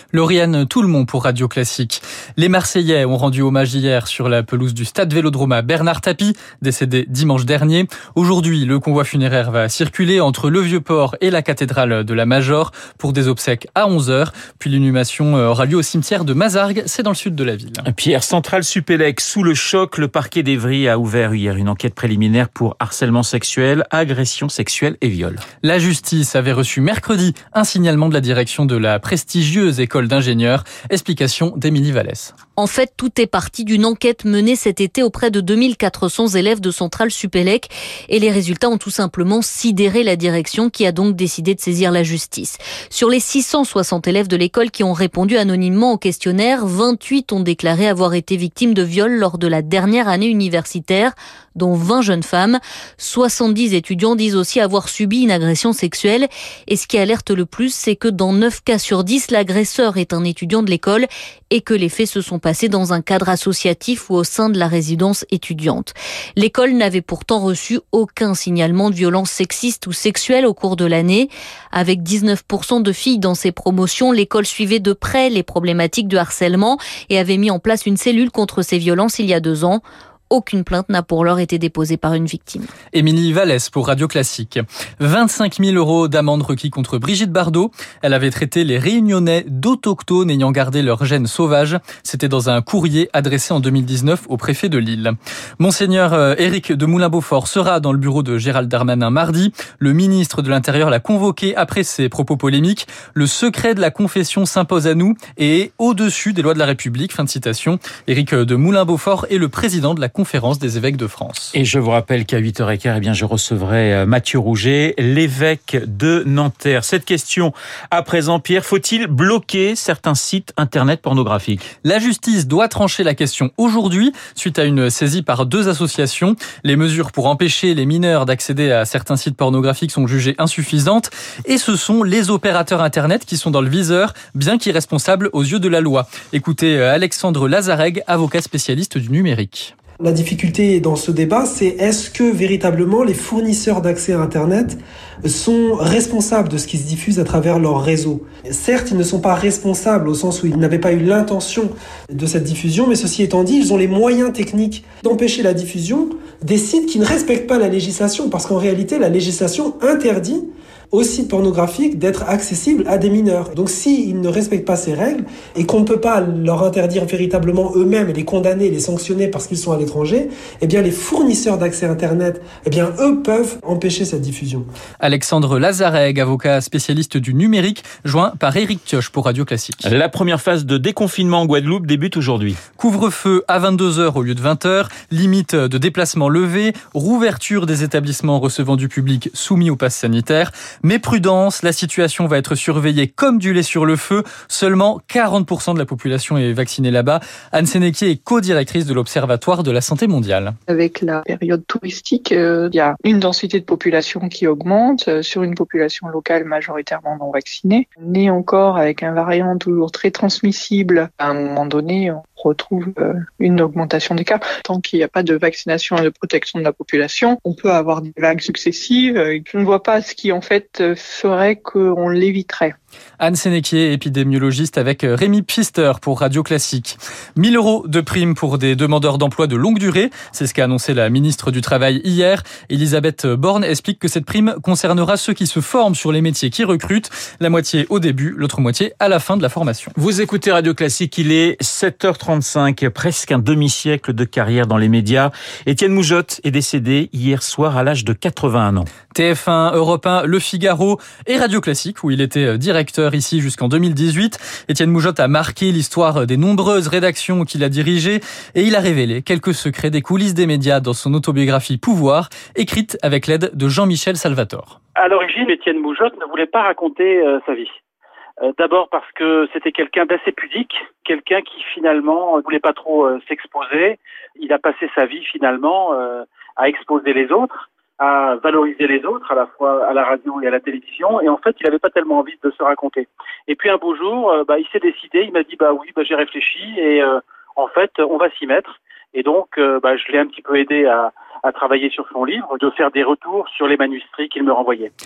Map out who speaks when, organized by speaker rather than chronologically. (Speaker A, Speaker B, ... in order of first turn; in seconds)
Speaker A: 0.1-17.9, 25.6-32.3, 82.9-111.5, 121.8-139.7, 175.0-179.9, 182.8-200.6, 223.2-239.9, 249.1-264.8
Speaker B: 17.9-25.4, 111.5-121.7, 179.8-182.6, 240.0-248.9
Speaker C: 32.6-82.7
Speaker D: 140.0-174.7
Speaker E: 200.7-222.7
Speaker F: 265.0-267.7, 268.5-294.9